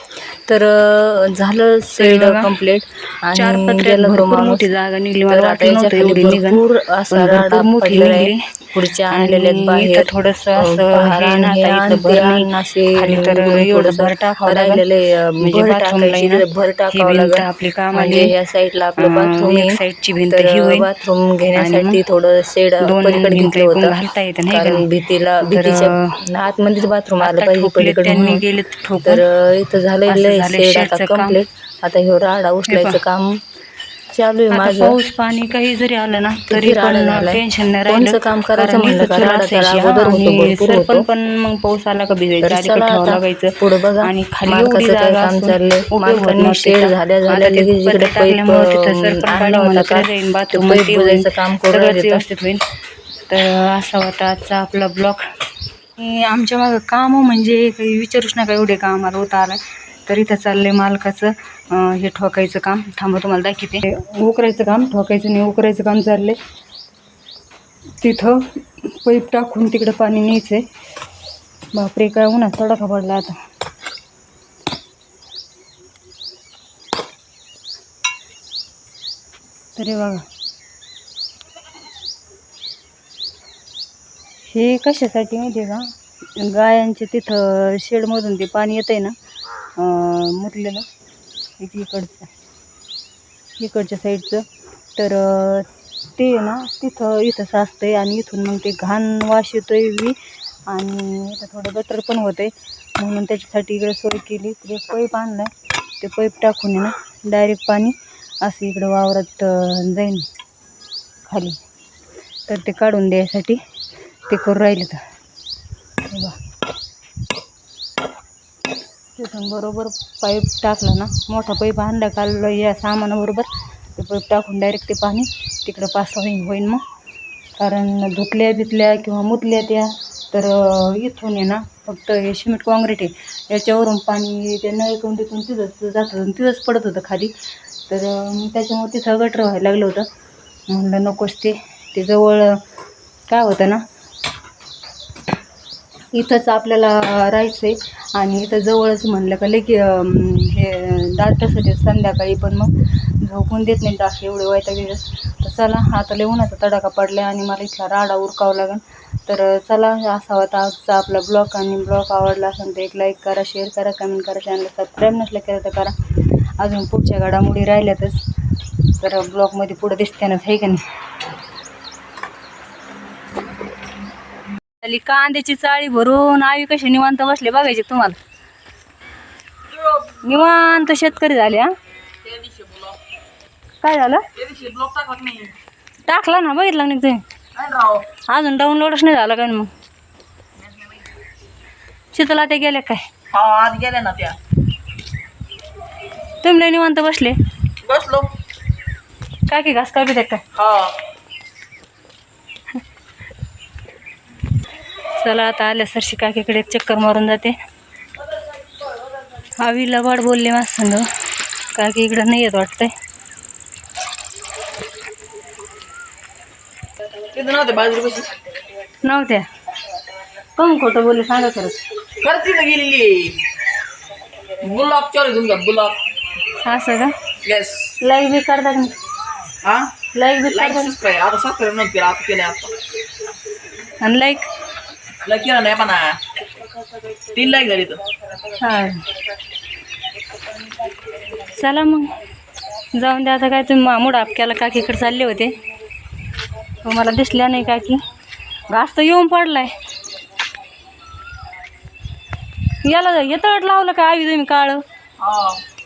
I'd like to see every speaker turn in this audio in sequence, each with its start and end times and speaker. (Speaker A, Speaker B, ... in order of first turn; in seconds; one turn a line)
Speaker A: 0.5-4.7
Speaker B: 1.9-2.5
Speaker B: 3.3-8.6
Speaker A: 5.3-19.8
Speaker B: 9.1-14.8
Speaker B: 15.4-18.4
Speaker B: 19.0-20.9
Speaker A: 20.3-24.0
Speaker B: 21.6-22.0
Speaker B: 22.8-24.9
Speaker A: 24.5-28.4
Speaker B: 25.4-26.2
Speaker B: 27.2-29.2
Speaker A: 29.0-33.4
Speaker B: 30.1-31.4
Speaker B: 32.7-33.0
Speaker A: 34.1-35.0
Speaker B: 34.5-52.6
Speaker A: 36.5-41.1
Speaker A: 42.4-52.2
Speaker B: 53.3-55.3
Speaker B: 56.0-66.4
Speaker B: 68.0-70.7
Speaker B: 71.7-73.4
Speaker B: 79.8-80.2
Speaker B: 84.5-89.2
Speaker B: 89.8-90.8
Speaker B: 91.6-92.3
Speaker B: 93.6-94.4
Speaker B: 95.0-100.2
Speaker B: 100.7-110.3
Speaker B: 111.3-111.6
Speaker B: 112.5-113.6
Speaker B: 114.3-115.0
Speaker B: 116.1-116.4
Speaker B: 119.2-126.8
Speaker B: 127.6-137.3
Speaker B: 137.9-140.1
Speaker B: 140.7-142.6
Speaker B: 143.3-143.8
Speaker B: 146.1-168.2
Speaker B: 169.0-170.8
Speaker B: 174.8-178.2
Speaker B: 180.2-181.7
Speaker C: 182.2-183.0
Speaker B: 183.8-184.2
Speaker C: 184.4-185.5
Speaker B: 186.1-187.2
Speaker C: 187.6-188.1
Speaker B: 188.3-189.7
Speaker B: 192.1-193.1
Speaker C: 193.3-194.4
Speaker B: 196.4-197.4
Speaker C: 197.8-198.3
Speaker B: 199.5-200.4
Speaker C: 200.6-201.0
Speaker B: 205.2-207.6
Speaker B: 209.4-211.1
Speaker B: 211.6-212.9
Speaker C: 217.3-218.3
Speaker B: 219.0-219.5
Speaker B: 220.6-221.8
Speaker C: 222.2-223.4
Speaker C: 224.6-226.1
Speaker B: 226.5-227.2
Speaker C: 227.4-228.0
Speaker B: 228.0-229.0
Speaker C: 229.6-229.9
Speaker B: 230.1-230.9
Speaker C: 230.5-232.7
Speaker B: 234.0-234.5
Speaker C: 235.2-236.2
Speaker C: 237.2-238.0
Speaker B: 238.4-239.1
Speaker B: 241.4-242.1
Speaker B: 242.9-245.6
Speaker B: 246.7-248.0
Speaker B: 248.7-249.7
Speaker B: 252.8-254.8
Speaker C: 255.2-255.6